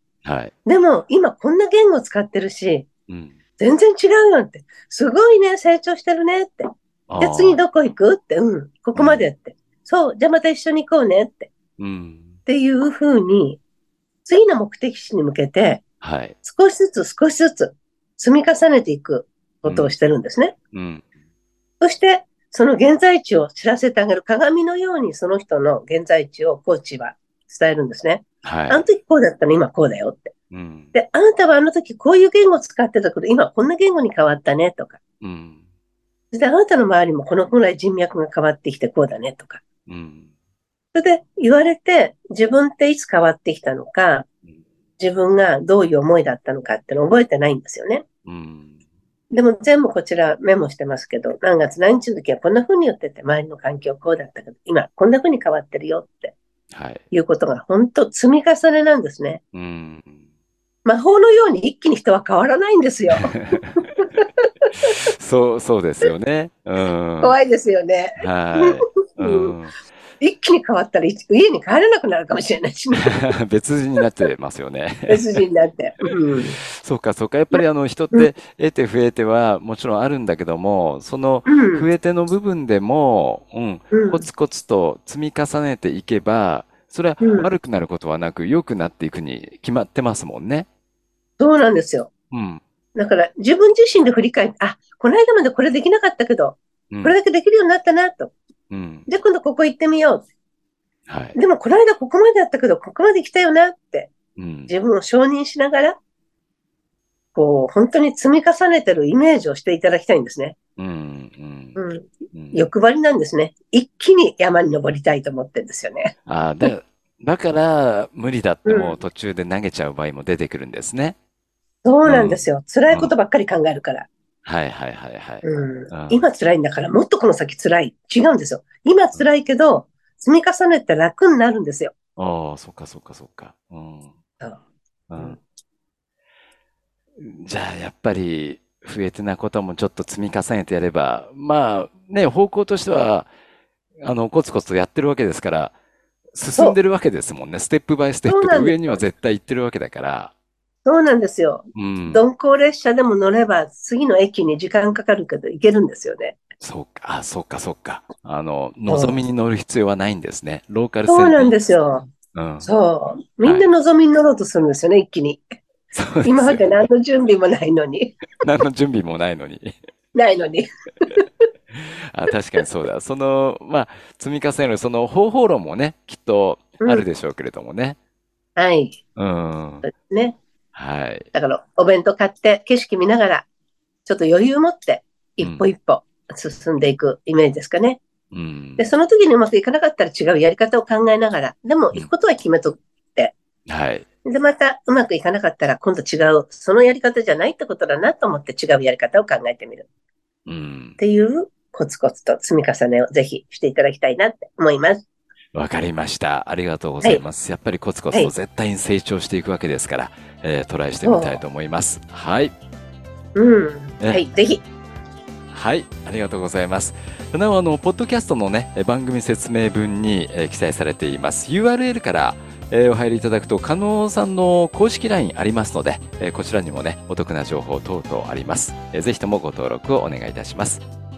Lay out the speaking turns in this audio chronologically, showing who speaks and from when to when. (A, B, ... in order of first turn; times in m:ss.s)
0:00.2-0:00.5 A
0:00.6-0:02.9 B
0:03.1-0:03.3 A
0:03.6-0:11.5 B
0:07.1-0:07.6 A
0:08.9-0:09.2 A
0:11.8-0:12.4 A
0:12.4-0:13.6 B
0:14.2-0:15.8 B
0:16.0-0:16.4 A
0:16.4-0:20.5 B
0:19.6-0:19.9 A
0:20.7-0:21.0 A
0:21.8-0:30.3 B
0:28.4-0:28.8 A
0:30.5-0:30.9 A
0:30.9-0:35.0 B
0:35.2-0:35.6 A
0:36.3-0:39.6 B
0:39.9-0:40.3 A
0:40.9-0:44.2 B
0:45.0-0:48.0 B
0:48.2-0:48.8 A
0:49.3-0:56.3 B
0:56.7-0:57.0 A
0:57.1-0:59.4 B
0:59.5-1:00.2 A
1:00.8-1:04.9 B
1:03.1-1:03.8 A
1:05.2-1:07.4 A
1:07.2-1:09.5 B
1:08.2-1:09.8 A
1:10.2-1:13.4 B
1:13.0-1:15.4 A
1:15.1-1:16.6 B
1:16.6-1:30.7 A
1:21.4-1:21.9 B
1:23.9-1:24.2 B
1:27.2-1:27.5 B
1:31.4-1:32.1 B
1:32.3-1:32.6 A
1:32.9-1:38.3 B
1:38.7-1:39.1 A
1:39.1-1:40.2 B
1:41.1-1:41.4 A
1:41.3-1:44.1 B
1:44.4-1:44.7 A
1:44.7-1:46.0 B
1:47.3-1:50.6 B
1:50.8-1:51.8 A
1:51.8-1:56.7 B
1:52.3-1:52.6 A
1:56.2-2:01.2 A
1:58.6-1:59.0 B
2:01.8-2:04.1 B
2:02.0-2:03.1 A
2:04.4-2:06.2 A
2:05.4-2:11.9 B
2:12.2-2:14.1 A
2:15.1-2:15.4 A
2:17.2-2:23.3 A
2:24.0-2:25.7 A
2:26.3-2:30.3 A
2:28.2-2:29.0 B
2:30.8-2:36.4 B
2:31.7-2:32.2 A
2:36.6-2:41.6 A
2:38.9-2:39.2 B
2:41.1-2:42.1 B
2:42.3-2:42.7 A
2:42.6-2:45.4 B
2:43.4-2:43.7 A
2:45.9-2:46.9 A
2:46.2-2:48.2 B
2:48.4-2:49.7 A
2:50.1-2:51.4 B
2:51.7-2:58.0 A
2:56.8-2:57.0 B
2:58.6-2:59.0 B
2:59.2-2:59.9 A
2:59.8-3:00.4 B
3:00.7-3:01.3 A
3:01.3-3:03.4 B
3:04.0-3:08.0 B
3:05.4-3:05.6 A
3:08.3-3:08.9 A
3:08.8-3:13.3 B
3:13.7-3:14.0 A
3:14.2-3:19.9 B
3:20.4-3:21.0 A
3:21.0-3:25.0 B
3:25.5-3:32.5 A
3:31.0-3:31.4 B
3:33.3-3:34.6 B
3:35.5-3:50.8 A